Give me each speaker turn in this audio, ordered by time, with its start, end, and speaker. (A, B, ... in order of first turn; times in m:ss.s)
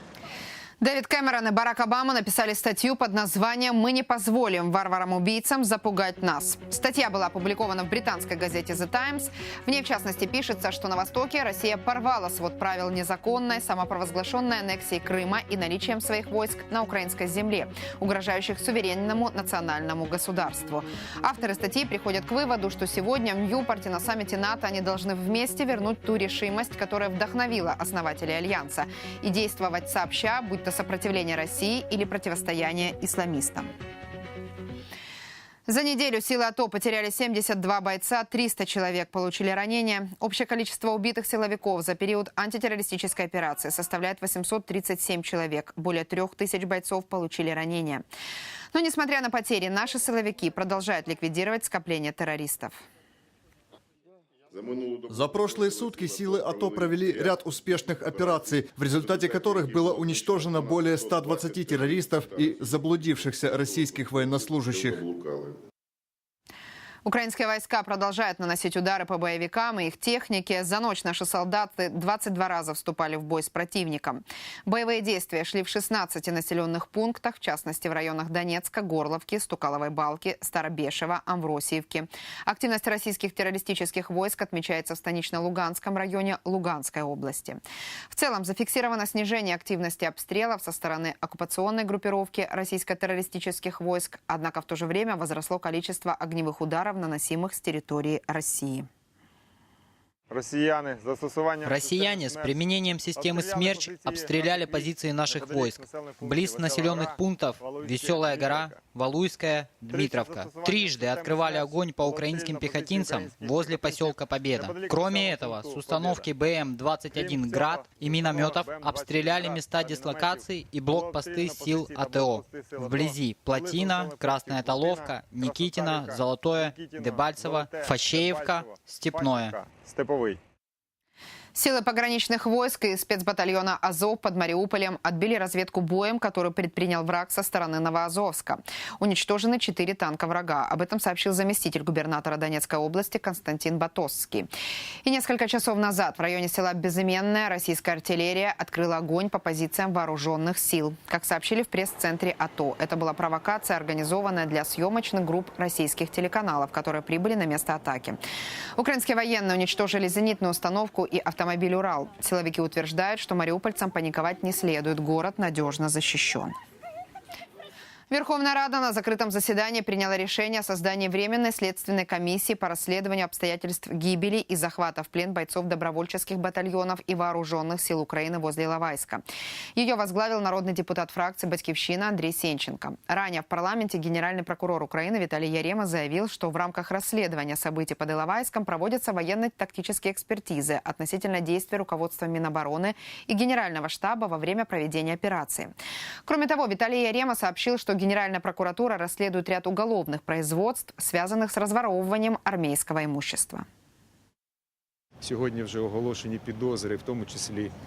0:00.8-0:33.7 A
0:35.7-0:48.0 A
0:48.7-0:52.8 A
0:55.1-1:05.0 B
1:07.0-1:27.6 A
1:28.1-1:38.9 A
1:40.3-1:42.5 C
1:41.6-2:09.6 D
1:43.2-1:48.7 C
1:49.9-1:56.3 C
1:57.1-2:10.4 C
2:11.5-2:24.5 A
2:25.0-2:38.2 A
2:38.8-2:46.5 A
2:48.1-2:59.2 A
2:59.8-3:23.6 A
3:25.2-3:27.7 E